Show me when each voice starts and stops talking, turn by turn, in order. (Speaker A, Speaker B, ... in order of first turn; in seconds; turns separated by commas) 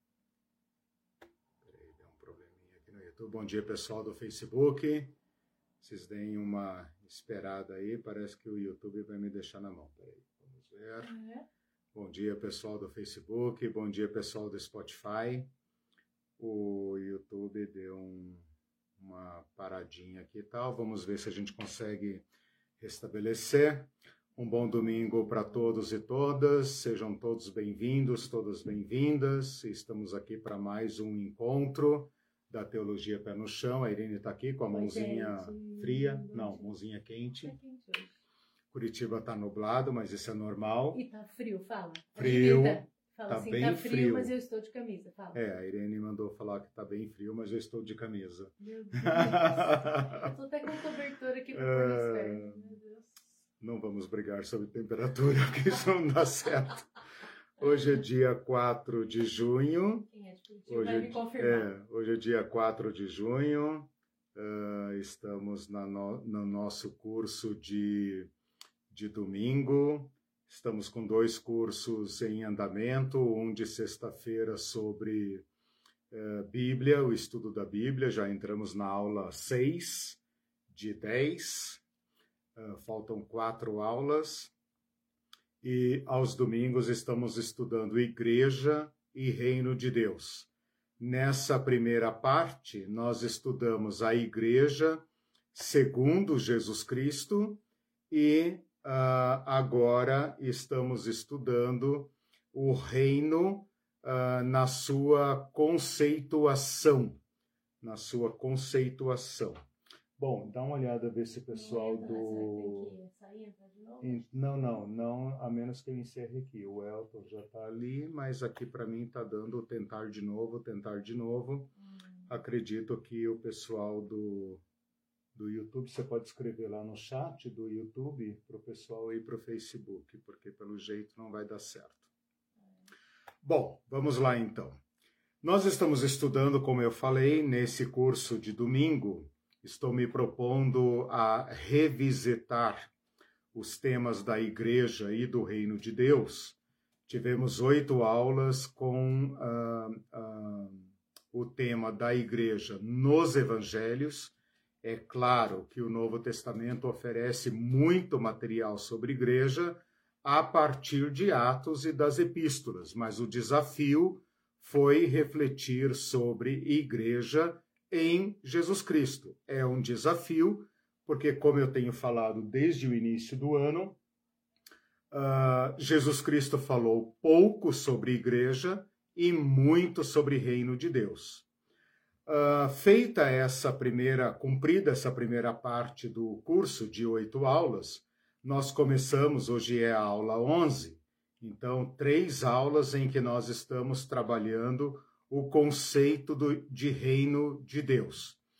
Speaker A: 1.6-5.1, Speaker A: 5.8-11.1, Speaker B: 11.0-11.4, Speaker A: 11.9-15.5, Speaker A: 16.4-18.4, Speaker A: 19.0-22.2, Speaker A: 22.8-37.5, Speaker B: 34.7-36.6, Speaker B: 37.4-38.1, Speaker A: 38.7-41.0, Speaker B: 40.9-45.4, Speaker A: 42.1-44.3, Speaker A: 45.3-50.3, Speaker B: 48.6-53.3, Speaker A: 51.5-52.7, Speaker A: 53.6-56.9, Speaker A: 57.6-60.0, Speaker B: 60.0-61.7, Speaker A: 60.7-68.3, Speaker A: 68.9-75.4, Speaker A: 76.1-80.2, Speaker A: 80.7-81.8, Speaker A: 82.5-84.5, Speaker A: 85.6-95.0, Speaker A: 95.5-107.2, Speaker A: 107.8-109.6, Speaker A: 110.2-112.9, Speaker B: 111.5-114.2, Speaker A: 114.0-121.7, Speaker A: 122.3-124.6, Speaker A: 125.3-132.1, Speaker A: 133.4-134.8, Speaker A: 135.4-142.9, Speaker A: 143.5-174.0, Speaker A: 175.1-181.4, Speaker A: 182.3-198.4